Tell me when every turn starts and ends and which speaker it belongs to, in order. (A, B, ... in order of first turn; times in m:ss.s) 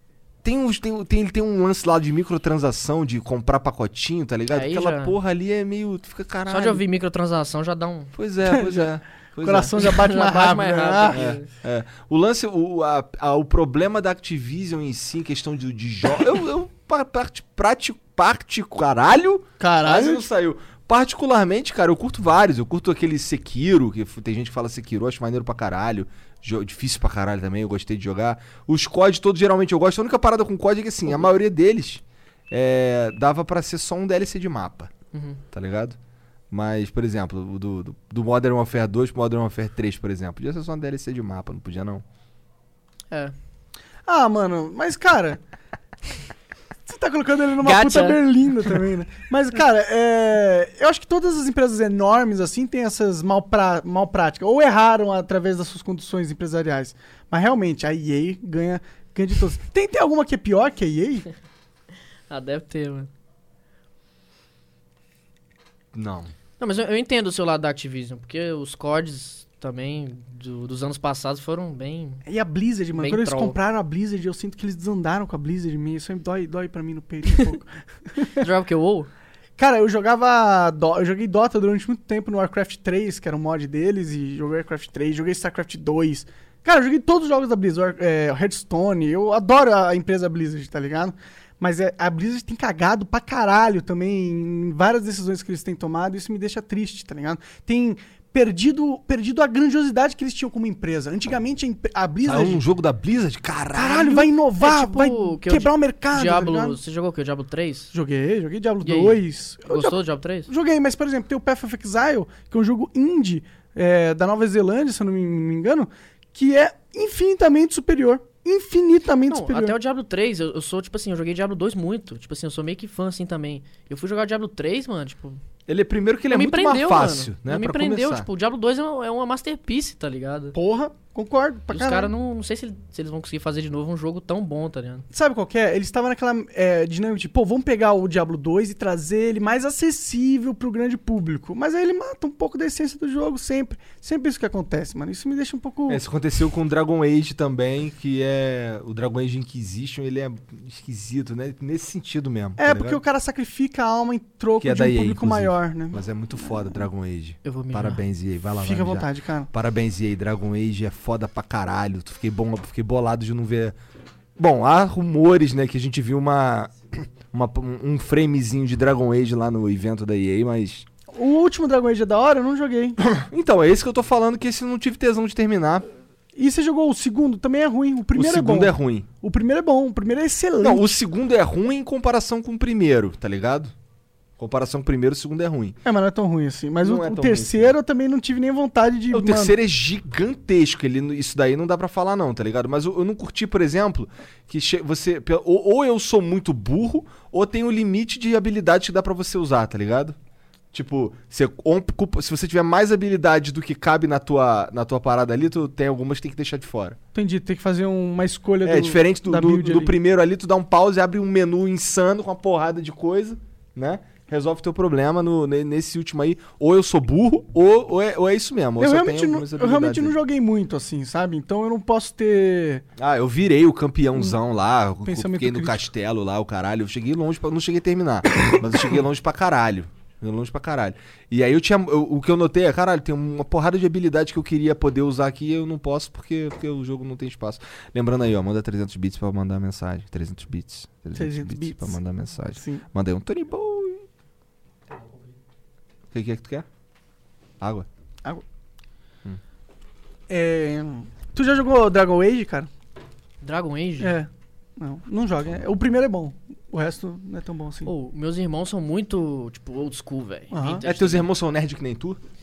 0:00.4-0:06.8 A
0:04.5-0:05.1 B
0:06.5-0:08.1 B
0:08.1-0:09.8 A
0:08.4-0:08.8 C
0:09.4-0:11.2 C
0:09.7-0:11.5 B
0:11.1-0:34.9 A
0:19.6-0:20.2 C
0:35.1-0:35.4 B
0:35.5-0:36.0 A
0:36.5-0:42.0 A
0:44.0-0:45.4 C
0:46.8-1:01.2 C
0:47.6-0:48.2 B
1:02.3-1:03.1 B
1:05.9-1:06.3 A
1:06.6-1:12.2 B
1:12.2-1:18.4 C
1:12.9-1:13.6 B
1:18.2-1:19.1 B
1:19.6-1:42.6 C
1:42.2-1:44.3 A
1:43.7-1:46.8 C
1:44.6-1:47.9 B
1:47.9-1:59.8 C
1:48.8-1:50.5 B
1:59.3-2:05.4 B
2:05.7-2:08.3 A
2:06.3-2:10.6 B
2:10.5-2:12.1 C
2:11.7-2:15.0 B
2:15.1-2:26.0 C
2:25.9-2:33.0 A
2:32.6-2:36.0 C
2:34.6-2:43.7 A
2:37.4-2:38.0 B
2:38.6-2:39.5 C
2:44.4-2:50.8 A
2:51.1-2:53.0 C
2:53.0-2:55.9 A
2:56.4-3:00.9 C
2:58.1-2:59.1 A
3:00.6-3:03.7 A
3:04.4-3:05.8 A
3:05.8-3:09.6 C
3:06.8-3:07.7 A
3:09.1-3:20.2 A
3:20.7-3:27.0 A
3:27.1-3:30.0 C
3:28.6-3:40.1 A
3:38.8-3:42.8 C
3:43.0-4:04.0 A
3:45.0-3:45.9 C
4:01.1-4:02.0 C
4:02.5-4:02.8 C
4:06.1-4:06.6 A
4:07.6-4:07.8 A
4:10.3-4:12.7 C
4:13.4-4:14.2 B
4:14.0-4:17.9 C
4:17.8-4:21.3 B
4:20.5-4:20.8 C
4:20.8-4:22.2 A